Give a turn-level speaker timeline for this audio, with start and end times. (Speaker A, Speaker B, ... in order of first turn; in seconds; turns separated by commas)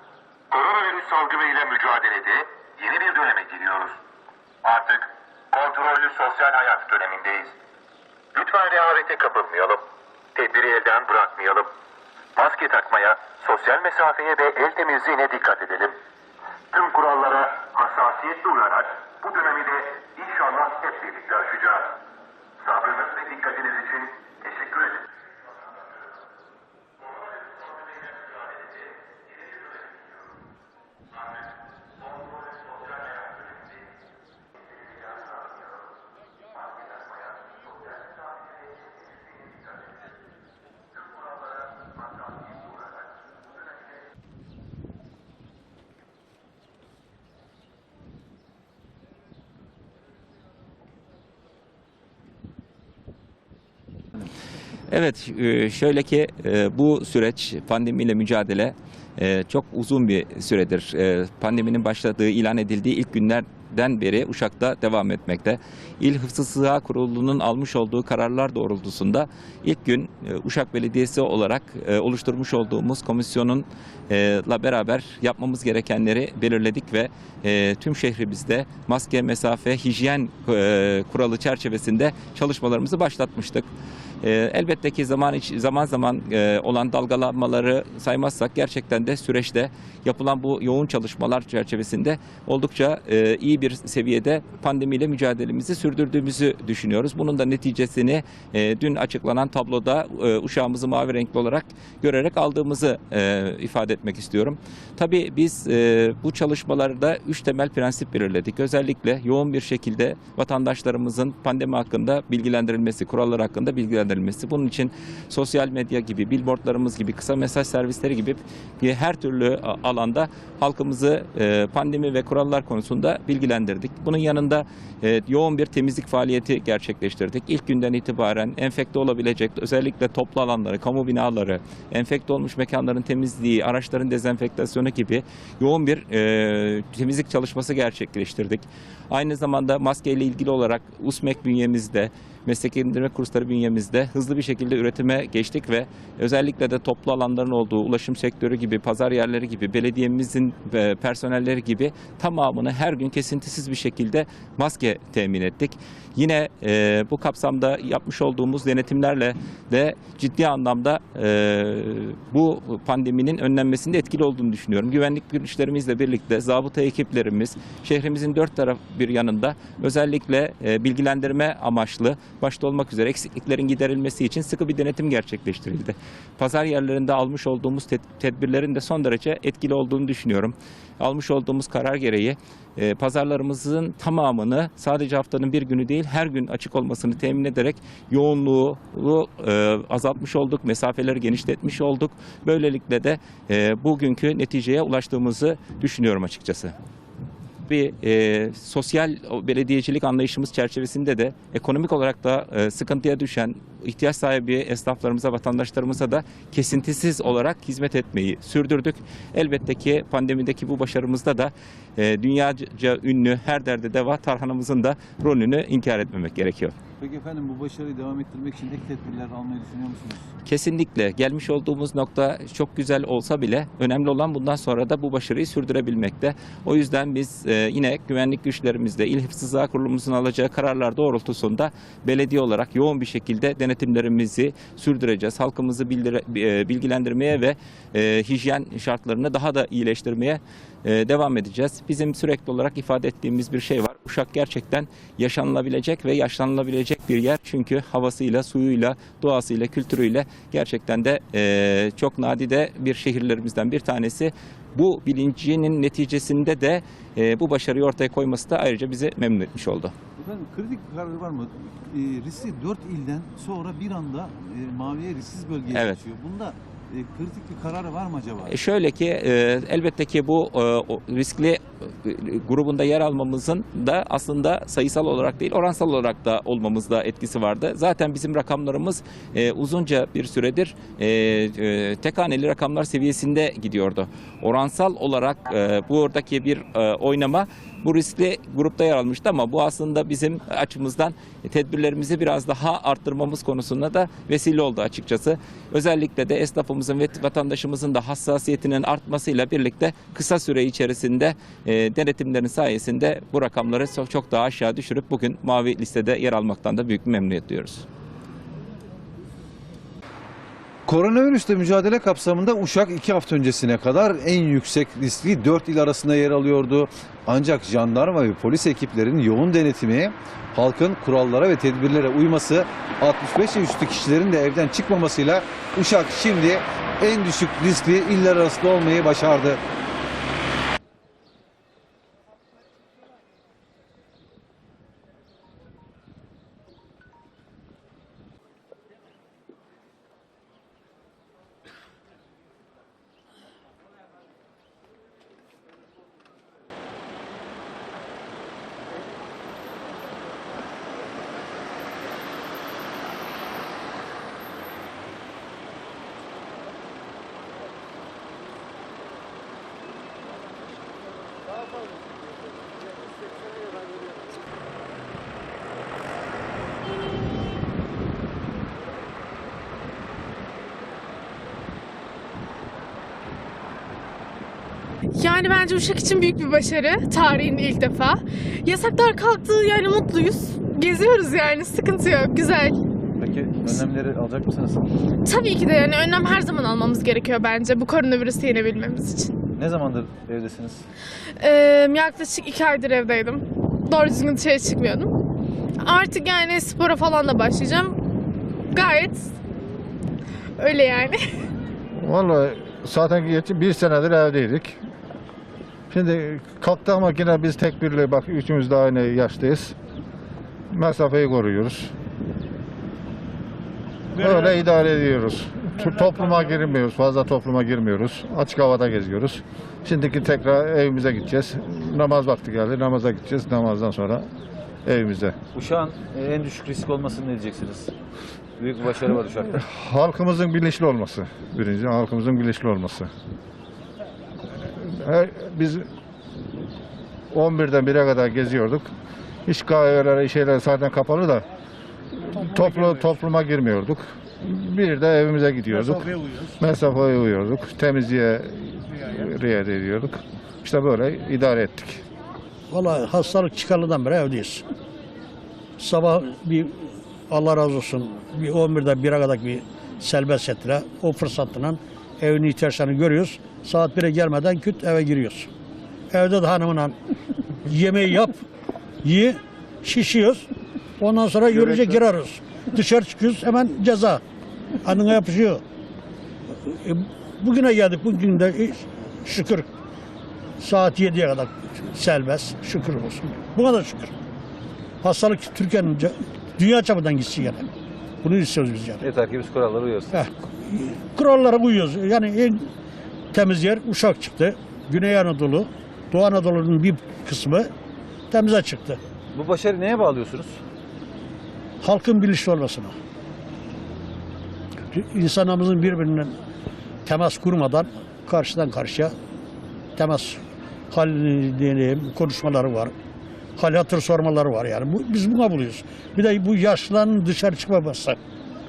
Speaker A: 0.5-4.0, Speaker A: 4.6-7.5, Speaker A: 8.3-11.7, Speaker A: 12.4-16.0, Speaker A: 16.7-22.0, Speaker A: 22.6-25.0, Speaker B: 54.9-83.7, Speaker B: 84.2-196.8, Speaker B: 197.7-216.7, Speaker C: 217.0-220.2, Speaker B: 220.4-259.9, Speaker C: 260.2-268.6, Speaker B: 265.7-266.0, Speaker B: 268.4-307.9, Speaker C: 310.9-329.6, Speaker D: 375.2-382.8, Speaker C: 383.2-384.8, Speaker D: 385.2-389.3, Speaker C: 389.6-390.9, Speaker D: 391.4-395.1, Speaker D: 395.8-398.0, Speaker D: 398.7-399.3, Speaker D: 400.6-401.2, Speaker E: 402.0-404.8, Speaker E: 405.9-409.8, Speaker E: 410.7-411.9, Speaker E: 414.1-424.2, Speaker E: 424.9-425.4, Speaker C: 425.5-427.9, Speaker C: 428.6-429.6, Speaker E: 429.6-433.1, Speaker E: 434.8-435.9, Speaker E: 437.3-438.9, Speaker E: 439.4-441.4, Speaker E: 442.2-452.0, Speaker F: 452.7-454.6, Speaker F: 455.8-465.5, Speaker F: 466.1-466.9, Speaker F: 467.6-468.4, Speaker F: 469.0-474.2, Speaker F: 474.8-475.6, Speaker F: 476.6-479.7, Speaker F: 480.6-484.1, Speaker F: 485.0-487.7, Speaker F: 488.2-489.0, Speaker C: 489.0-490.2, Speaker F: 490.1-492.7, Speaker F: 493.3-497.7, Speaker F: 498.3-499.0, Speaker C: 499.3-500.6, Speaker F: 501.8-502.9, Speaker F: 504.9-506.4, Speaker F: 507.0-509.1, Speaker F: 510.0-512.9, Speaker F: 513.6-518.2